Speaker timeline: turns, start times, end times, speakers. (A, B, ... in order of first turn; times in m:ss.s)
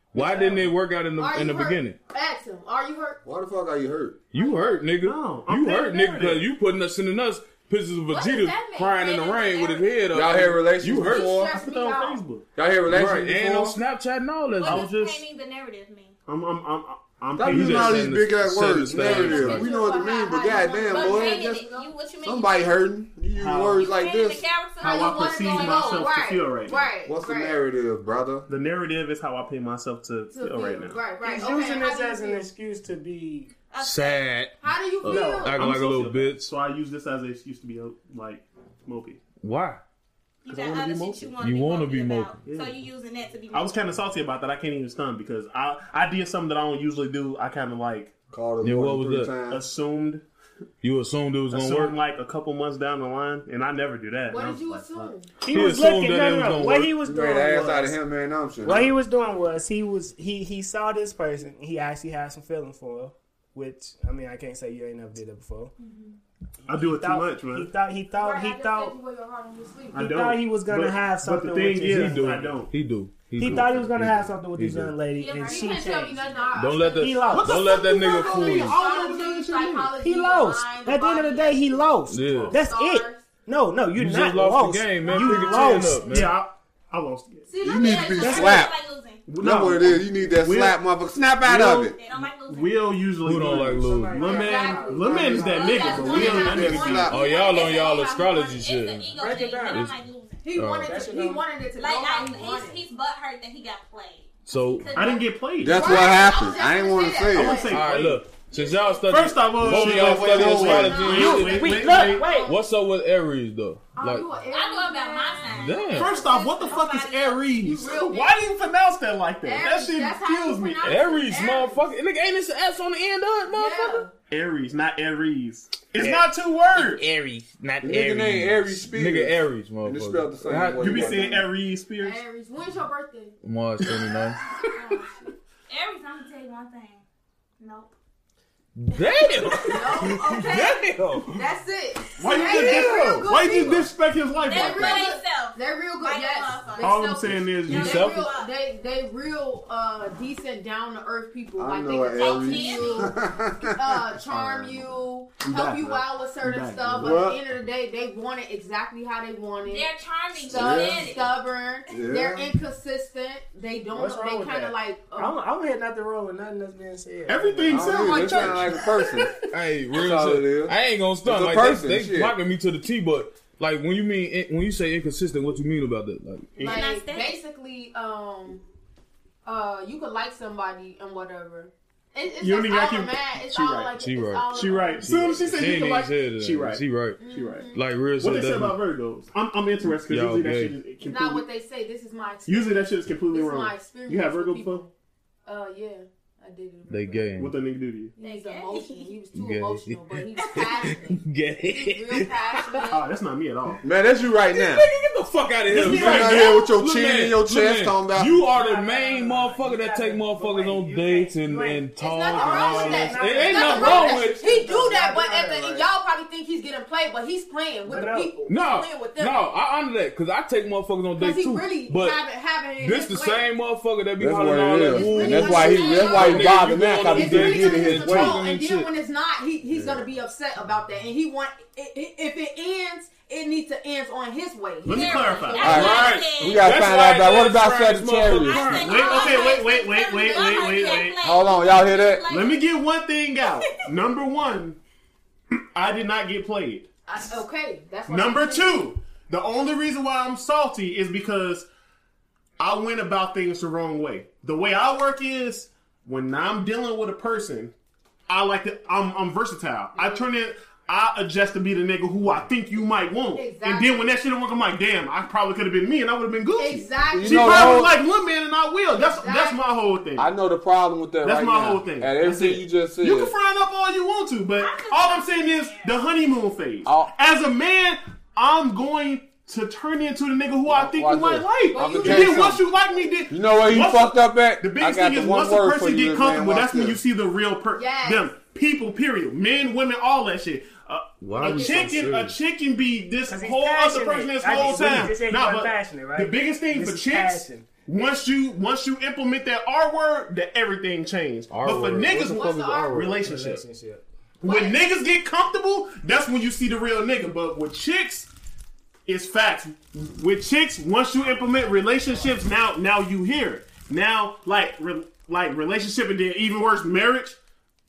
0:00.1-0:02.0 A
0:00.2-0:00.7 B
0:01.2-0:03.2 C
0:03.2-0:04.2 D
0:04.3-0:11.2 A
0:04.4-0:04.9 C
0:05.0-0:06.5 B
0:08.1-0:09.6 C
0:09.1-0:10.2 E
0:10.1-0:11.5 D
0:11.0-0:12.2 C
0:11.3-0:12.4 B
0:12.6-0:13.8 D
0:12.9-0:14.9 A
0:14.6-0:15.2 B
0:14.6-0:16.2 E
0:16.3-0:18.2 B
0:17.3-0:21.6 D
0:17.4-0:19.7 A
0:18.8-0:21.9 C
0:20.6-0:22.8 E
0:22.2-0:24.4 D
0:23.3-0:23.9 B
0:23.8-0:26.1 E
0:24.8-0:26.9 B
0:24.8-0:27.6 C
0:27.0-0:28.5 D
0:28.5-0:31.0 B
0:30.3-0:32.4 C
0:31.2-0:33.5 F
0:33.7-0:34.3 E
0:33.8-0:36.5 A
0:34.6-0:35.6 C
0:35.0-0:39.2 B
0:39.4-0:39.8 A
0:40.4-0:43.8 E
0:40.5-0:41.4 B
0:41.4-0:42.4 A
0:42.4-0:42.8 B
0:43.5-0:48.1 B
0:48.3-0:49.6 D
0:48.6-0:49.4 A
0:49.4-0:50.2 B
0:50.8-0:51.9 A
0:51.5-0:55.1 B
0:54.3-0:55.3 C
0:55.4-0:58.0 F
0:55.5-0:56.9 A
0:57.0-0:58.9 D
0:58.6-1:05.7 F
1:05.8-1:06.2 C
1:06.6-1:08.9 F
1:06.7-1:07.7 B
1:08.1-1:10.1 C
1:09.9-1:12.8 B
1:09.9-1:12.5 F
1:11.8-1:14.9 A
1:13.4-1:16.2 F
1:15.1-1:16.6 E
1:15.2-1:23.2 C
1:16.6-1:18.8 A
1:16.9-1:17.6 F
1:17.3-1:20.0 B
1:20.0-1:26.3 F
1:22.1-1:22.5 A
1:22.2-1:22.6 B
1:23.9-1:26.3 A
1:25.1-1:25.5 C
1:25.1-1:27.5 B
1:27.5-1:28.7 C
1:27.6-1:28.7 D
1:27.6-1:29.2 E
1:28.2-1:28.6 F
1:29.2-1:30.8 B
1:29.4-1:32.0 D
1:31.4-1:31.9 B
1:31.9-1:33.0 E
1:32.4-1:37.1 B
1:33.2-1:34.2 A
1:33.3-1:36.5 F
1:34.2-1:38.6 C
1:35.5-1:40.4 E
1:36.1-1:37.2 D
1:37.1-1:39.1 A
1:39.1-1:39.9 F
1:39.7-1:40.0 A
1:40.4-1:42.8 C
1:40.5-1:41.0 A
1:40.8-1:41.4 F
1:41.8-1:45.3 E
1:44.4-1:44.9 A
1:44.9-1:46.0 B
1:45.6-1:47.6 D
1:45.7-1:47.8 C
1:47.3-1:48.3 B
1:47.6-1:51.9 A
1:48.6-1:49.3 C
1:49.1-1:52.4 B
1:49.6-1:51.1 D
1:50.4-1:52.6 C
1:51.1-1:52.5 F
1:52.4-1:54.3 A
1:54.0-1:56.9 C
1:54.5-1:57.5 E
1:55.5-1:56.2 A
1:55.9-2:01.3 B
1:57.6-1:58.5 C
1:59.4-2:01.9 C
2:00.8-2:04.0 A
2:03.5-2:04.1 C
2:04.3-2:07.1 B
2:06.8-2:11.2 A
2:07.8-2:11.5 D
2:10.8-2:12.2 B
2:12.0-2:13.4 C
2:13.4-2:14.4 A
2:14.8-2:15.2 E
2:15.7-2:17.0 E
2:17.6-2:17.9 E
2:18.7-2:21.4 A
2:18.9-2:19.4 E
2:19.6-2:23.9 C
2:22.2-2:25.1 B
2:22.3-2:23.2 A
2:24.4-2:45.3 C
2:24.5-2:27.1 E
2:26.8-2:28.3 B
2:27.7-2:28.0 A
2:27.7-2:28.5 E
2:31.6-2:35.0 D
2:32.1-2:33.1 E
2:35.4-2:37.2 B
2:37.0-2:37.4 D
2:39.6-2:41.3 E
2:40.5-2:41.2 D
2:41.9-2:42.6 D
2:43.9-2:48.0 F
2:47.3-2:48.7 B
2:47.7-2:49.3 D
2:47.7-2:49.1 C
2:49.5-2:56.6 A
2:49.9-2:52.4 D
2:56.6-2:57.4 E
2:56.6-2:58.6 C
2:59.4-3:05.1 C
3:02.4-3:04.0 B
3:04.0-3:08.8 A
3:04.5-3:11.4 B
3:07.2-3:07.8 C
3:09.9-3:10.8 A
3:11.0-3:14.9 C
3:12.5-3:14.8 B
3:15.4-3:17.4 C
3:16.9-3:17.6 A
3:17.4-3:18.1 B
3:18.2-3:23.1 C
3:18.2-3:19.1 E
3:19.3-3:22.8 A
3:20.4-3:20.9 E
3:22.9-3:23.8 B
3:23.8-3:24.9 D
3:24.5-3:34.4 A
3:25.6-3:26.6 B
3:25.8-3:28.4 D
3:28.4-3:35.9 F
3:32.0-3:39.5 C
3:37.9-3:38.5 F
3:38.5-3:42.2 A
3:41.2-3:43.5 C
3:42.8-3:48.9 A
3:44.2-3:48.4 D
3:44.8-3:55.8 C
3:49.7-3:50.0 D
3:54.8-3:56.2 B
3:54.9-3:56.7 E
3:55.6-3:58.9 D
3:55.6-3:59.2 A
3:58.3-4:02.7 E
3:58.8-4:01.2 B
3:58.8-4:01.1 C
4:01.2-4:02.2 D
4:02.3-4:04.8 B
4:03.5-4:03.7 E
4:05.6-4:06.9 B
4:07.1-4:08.9 C
4:08.1-4:11.6 B
4:12.6-4:17.7 B
4:18.3-4:30.3 B
4:19.9-4:20.2 C
4:23.4-4:24.1 C
4:26.6-4:28.0 C
4:27.1-4:28.0 D
4:29.0-4:29.6 C
4:30.2-4:33.3 D
4:31.2-5:03.6 B
4:34.6-4:36.0 E
4:36.8-4:37.1 D
4:40.7-4:42.6 D
4:41.7-4:42.5 C
4:43.3-4:47.0 D
4:47.7-4:48.4 C
4:51.2-4:52.4 A
4:51.4-4:51.9 C
4:53.3-4:57.6 F
5:01.5-5:03.6 A
5:02.1-5:03.1 C
5:03.2-5:04.0 F
5:04.4-5:08.3 B
5:04.4-5:04.8 C
5:09.1-5:17.4 B